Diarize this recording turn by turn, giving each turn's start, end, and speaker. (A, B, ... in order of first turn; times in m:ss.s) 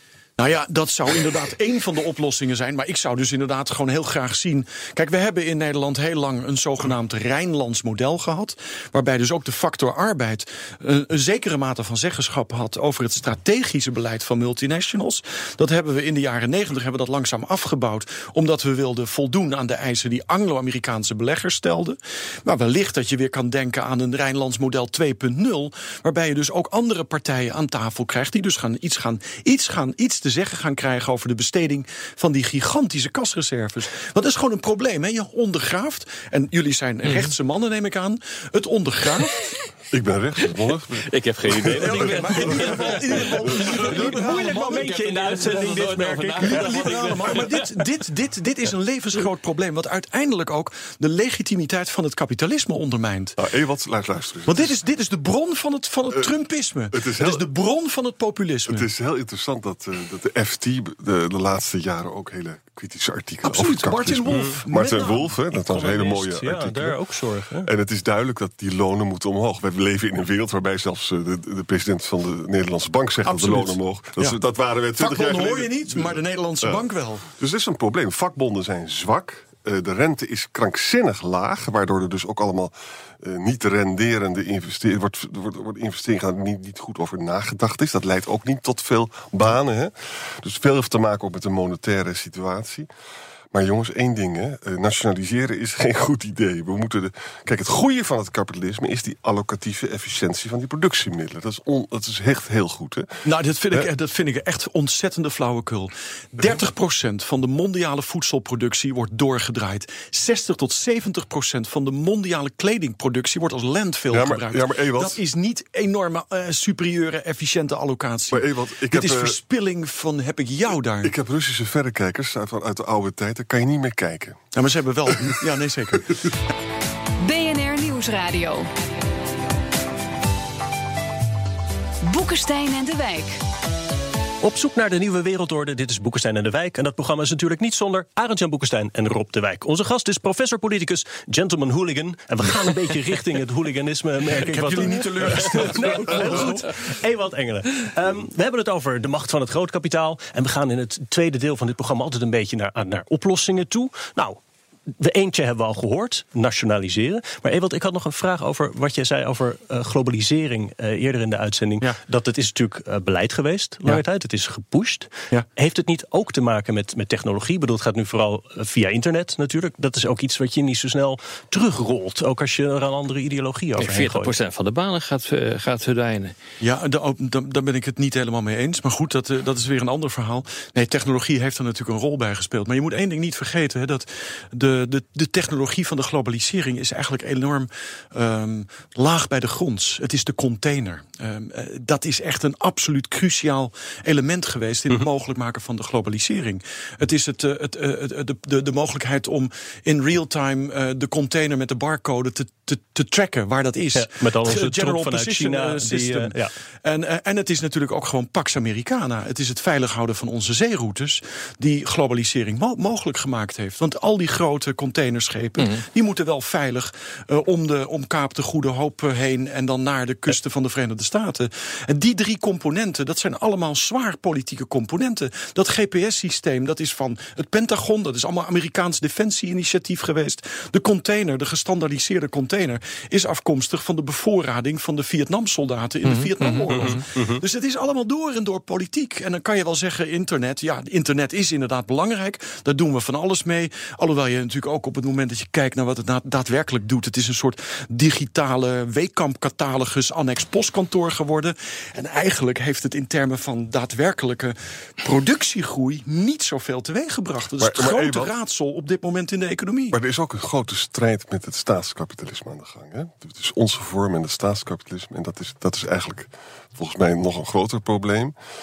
0:00.4-0:39.3 A
0:37.0-0:37.3 B
0:39.9-0:42.8 C
0:41.0-0:47.4 B
0:41.7-0:45.8 A
0:43.9-0:47.3 D
0:46.4-0:53.4 A
0:53.4-0:54.8 C
0:54.5-0:58.9 A
0:56.9-0:57.4 C
0:58.7-1:07.0 C
1:03.4-1:05.2 A
1:05.4-1:07.7 D
1:07.6-1:32.9 C
1:13.2-1:14.4 A
1:15.0-1:17.3 A
1:33.5-1:43.1 C
1:43.2-2:01.1 A
1:54.1-1:55.2 C
1:58.3-1:59.4 C
2:01.0-2:04.4 C
2:04.5-2:06.3 A
2:07.2-2:08.7 E
2:12.0-2:13.4 E
2:14.4-2:34.4 D
2:24.4-2:26.7 A
2:35.0-2:54.3 D
2:53.8-2:56.3 B
2:56.6-4:20.0 A
3:23.9-3:26.5 D
3:35.6-3:35.8 B
3:56.0-3:57.0 B
4:17.5-4:18.3 C
4:19.9-4:28.3 C